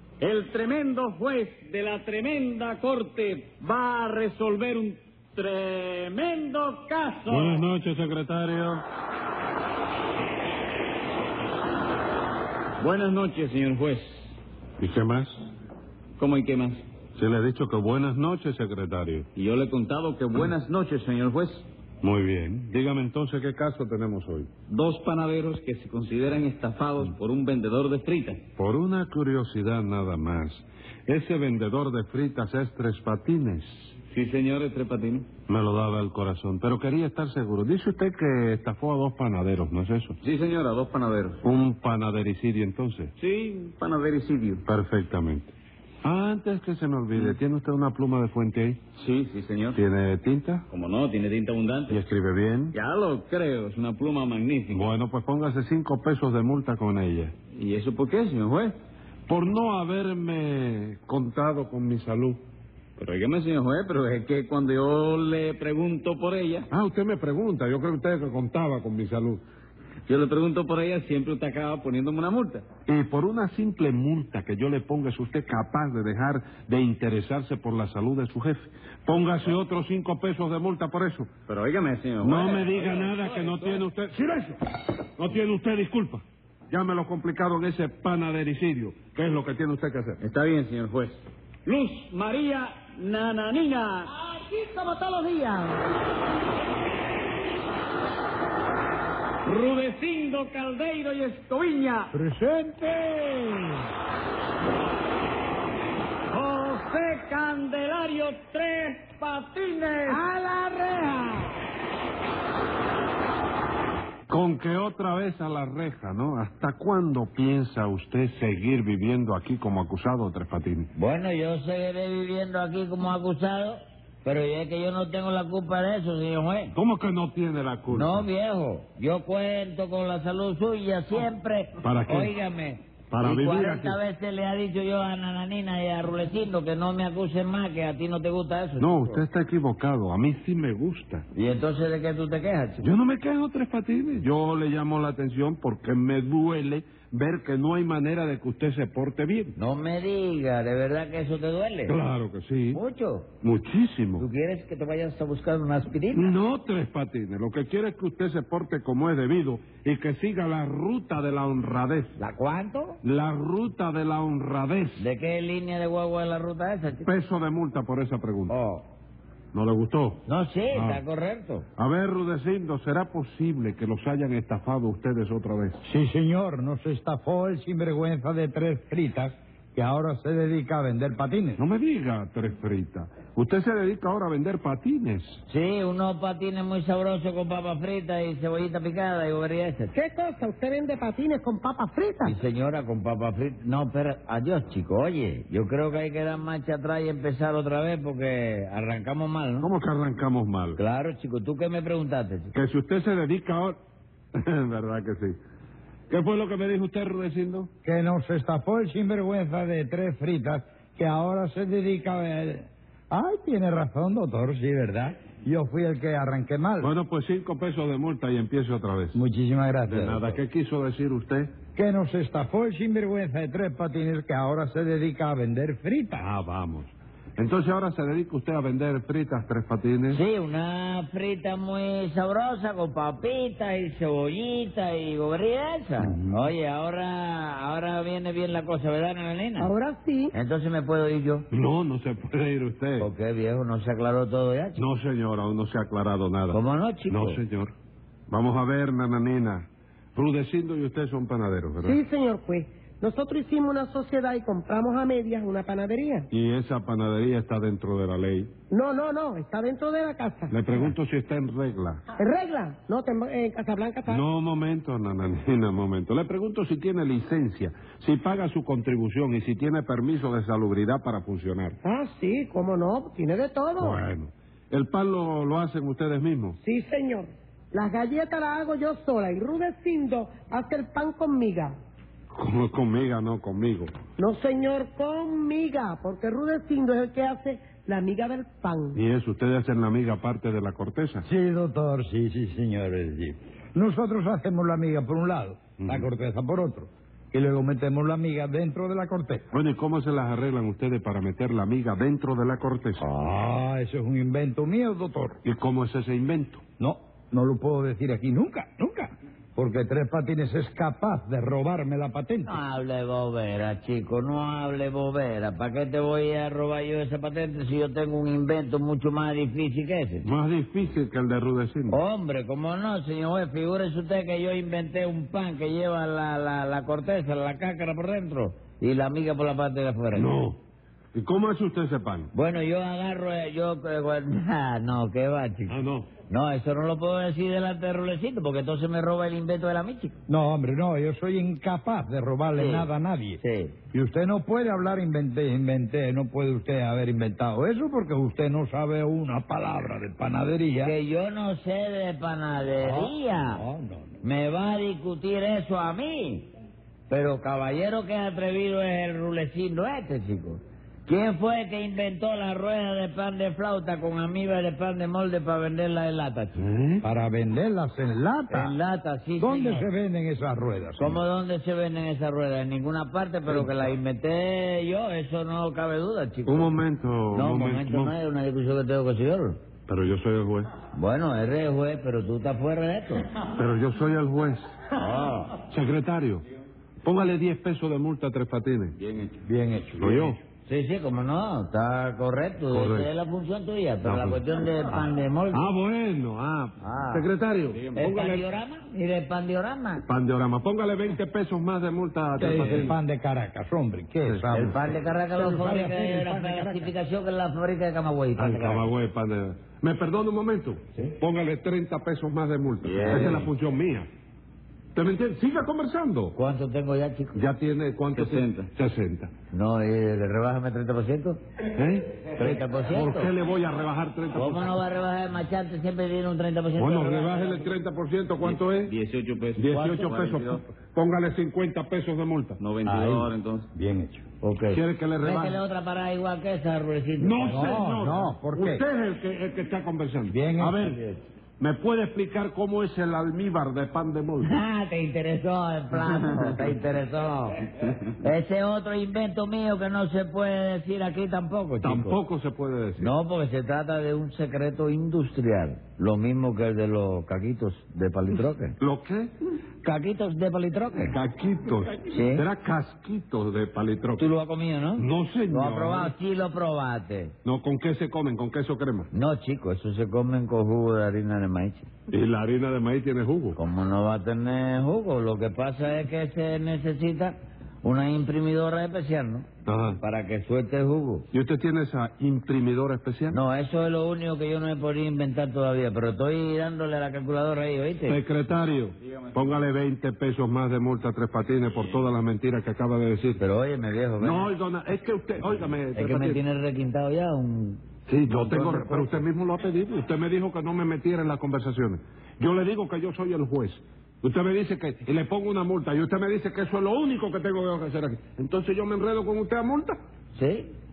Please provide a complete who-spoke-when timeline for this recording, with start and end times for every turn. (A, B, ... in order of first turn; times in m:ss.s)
0:00.2-0:07.6 A
0:07.3-0:08.8 B
0:12.8-0:14.3 A
0:14.8-0:15.4 B
0:16.2-0:16.8 A
0:17.2-0:19.3 B
0:19.3-0:21.6 A
0:22.0-0:24.5 B
0:24.7-0:28.4 A
0:28.6-0:34.0 B
0:34.1-0:35.3 A
0:35.5-0:40.2 B
0:40.2-0:41.4 A
0:41.4-0:43.1 B
0:43.2-0:44.6 A
0:44.6-0:48.8 B
0:48.9-0:49.8 A
0:49.7-0:50.6 B
0:50.7-0:52.0 A
0:51.9-0:52.8 B
0:52.7-0:54.9 A
0:54.7-0:57.3 B
0:57.5-0:58.7 A
0:59.3-1:02.4 B
1:03.0-1:06.7 A
1:06.7-1:09.4 B
1:10.1-1:12.6 A
1:12.8-1:21.3 B
1:21.5-1:23.9 A
1:22.2-1:24.6 B
1:25.2-1:30.2 B
1:30.2-1:34.1 A
1:34.1-1:35.8 C
1:39.4-1:42.1 A
1:42.1-1:43.7 D
1:46.3-1:50.2 A
1:50.0-1:51.5 C
1:54.3-2:00.9 B
2:00.9-2:06.7 E
2:06.7-2:08.3 B
2:07.9-2:19.2 E
2:11.8-2:12.3 B
2:13.1-2:14.0 B
2:18.8-2:21.2 B
2:21.3-2:22.8 E
2:22.8-2:29.5 B
2:29.6-2:32.0 E
2:31.9-2:32.8 B
2:32.7-2:33.3 E
2:33.4-2:34.2 B
2:34.2-2:36.4 E
2:36.1-2:42.2 B
2:42.2-2:43.0 E
2:43.0-2:45.0 B
2:45.0-2:47.1 E
2:47.0-2:48.5 B
2:48.5-2:48.8 E
2:49.5-2:51.0 B
2:50.2-2:51.7 E
2:51.8-2:55.8 B
2:55.8-3:01.6 D
3:01.6-3:05.4 B
3:05.5-3:09.9 E
3:09.9-3:12.4 C
3:12.2-3:19.7 E
3:19.6-3:20.8 B
3:20.8-3:22.5 E
3:22.5-3:23.8 B
3:24.3-3:25.4 B
3:26.1-3:27.7 B
3:27.8-3:36.9 D
3:36.8-3:39.2 B
3:39.1-3:40.4 D
3:39.9-3:41.5 B
3:41.7-3:46.2 D
3:46.1-3:50.2 B
3:50.1-3:59.7 E
3:56.0-3:56.4 B
3:59.6-4:00.3 C
4:00.3-4:01.5 E
4:01.5-4:03.1 B
4:03.0-4:04.8 E
4:04.8-4:07.7 B
4:06.5-4:07.4 E
4:08.3-4:12.0 B
4:11.8-4:16.3 C
4:16.3-4:18.5 B
4:18.7-4:20.8 C
4:20.5-4:22.0 B
4:22.2-4:24.2 C
4:24.1-4:31.8 B
4:31.8-4:34.0 C
4:33.8-4:36.6 B
4:36.6-4:41.7 C
4:42.3-4:43.9 B
4:44.2-4:49.0 C
4:48.9-4:51.2 B
4:51.2-4:59.4 D
4:55.8-4:56.0 B
4:59.5-5:03.0 B
5:03.0-5:05.4 D
5:05.4-5:06.6 B
5:06.8-5:12.6 D
5:12.4-5:20.3 E
5:20.2-5:22.0 B
5:21.9-5:30.3 E
5:30.1-5:30.6 B
5:31.1-5:32.3 B
5:32.3-5:35.8 E
5:35.7-5:36.1 B
5:36.3-5:40.2 E
5:40.3-5:43.4 D
5:42.5-5:43.8 E
5:43.9-5:51.0 D
5:50.8-5:53.6 E
5:52.8-5:54.2 D
5:54.2-5:56.5 E
5:57.1-6:06.6 E
6:06.6-6:07.0 B
6:07.0-6:08.8 D
6:08.5-6:09.9 E
6:09.4-6:11.2 D
6:11.0-6:16.8 E
6:16.5-6:18.1 B
6:17.3-6:19.6 E
6:19.9-6:20.7 B
6:20.9-6:23.2 E
6:23.5-6:24.7 B
6:24.9-6:25.6 E
6:25.7-6:26.4 B
6:27.0-6:29.0 B
6:29.0-6:29.4 A
6:29.4-6:30.3 D
6:30.0-6:30.4 B
6:30.6-6:35.6 E
6:32.7-6:33.1 B
6:34.0-6:34.4 B
6:35.5-6:38.4 B
6:36.8-6:37.3 E
6:37.9-6:40.0 E
6:40.1-6:43.0 B
6:42.4-6:46.9 D
6:42.5-6:42.9 A
6:44.2-6:44.7 B
6:44.5-6:48.9 E
6:48.4-6:54.1 B
6:52.8-6:53.5 A
6:52.9-6:53.5 E
6:54.9-6:56.4 B
6:56.3-6:57.4 E
6:57.3-6:59.3 B
6:58.1-6:58.7 A
6:59.5-7:01.4 E
7:01.8-7:04.7 B
7:02.3-7:03.3 E
7:04.3-7:07.7 E
7:06.8-7:08.9 B
7:08.4-7:10.6 A
7:09.6-7:12.6 B
7:12.6-7:13.7 A
7:12.8-7:14.2 D
7:14.4-7:17.8 E
7:14.7-7:15.6 B
7:17.2-7:21.0 B
7:17.5-7:18.8 D
7:20.3-7:20.9 D
7:20.8-7:21.3 E
7:21.6-7:24.6 B
7:24.4-7:27.6 E
7:28.2-7:32.2 E
7:31.8-7:33.1 B
7:33.0-7:38.8 E
7:38.8-7:39.3 B
7:39.8-7:41.2 E
7:41.1-7:44.3 B
7:42.0-7:42.4 E
7:44.2-7:47.3 E
7:45.0-7:46.1 B
7:47.4-7:49.1 B
7:49.1-7:51.9 E
7:52.1-7:53.6 B
7:53.6-7:59.5 E
7:59.6-8:00.0 B
8:00.0-8:01.3 E
8:01.3-8:03.4 B
8:03.3-8:08.2 E
8:08.1-8:13.4 B
8:13.4-8:14.5 E
8:14.2-8:16.4 B
8:15.9-8:19.2 E
8:18.0-8:30.0 B
8:30.3-8:30.7 E